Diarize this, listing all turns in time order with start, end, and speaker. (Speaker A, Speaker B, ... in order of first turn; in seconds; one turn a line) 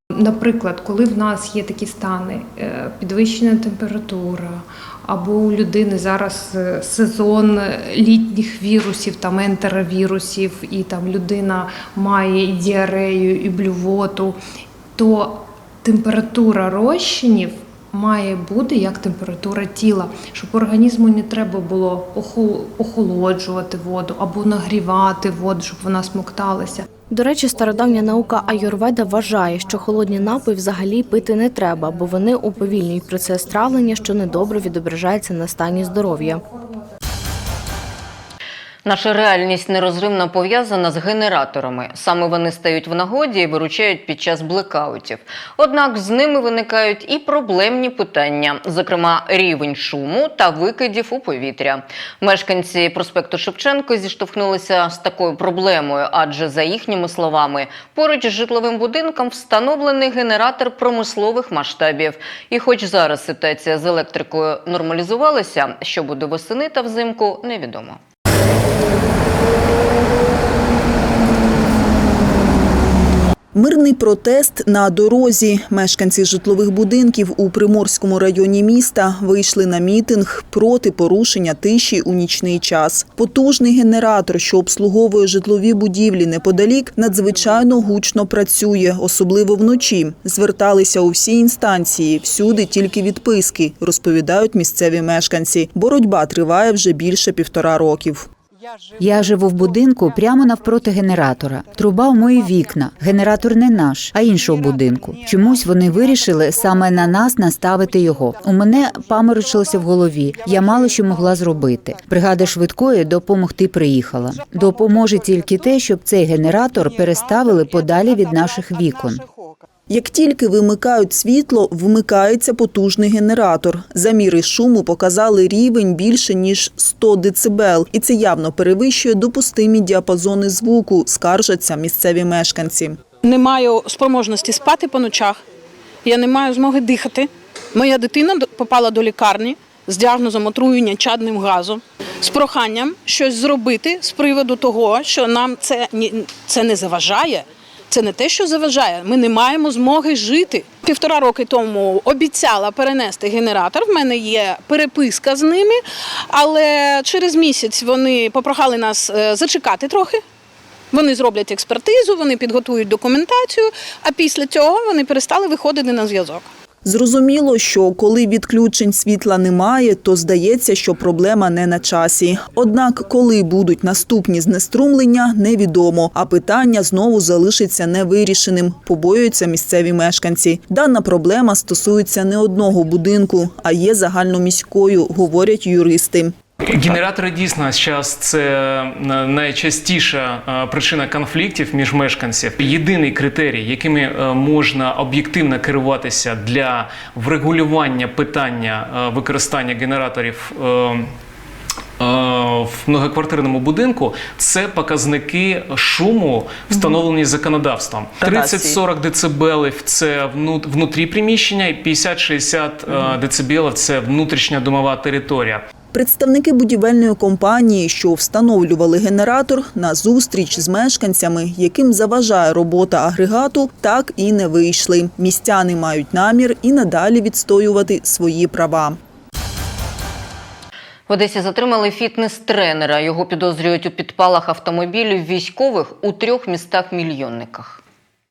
Speaker A: 0.1-14.4
Speaker A: 14.9-26.9
Speaker B: 27.1-36.4
Speaker C: 38.8-68.0
Speaker D: 73.5-98.3
Speaker E: 99.0-119.2
Speaker D: 119.9-133.0
Speaker F: 133.2-135.4
Speaker F: 136.0-160.2
Speaker F: 160.9-166.5
Speaker D: 166.8-186.3
Speaker G: 186.6-201.1
Speaker G: 202.0-215.6
Speaker D: 206.7-207.0
Speaker D: 208.2-208.8
Speaker D: 212.9-213.2
Speaker D: 215.9-229.0
Speaker C: 231.1-237.8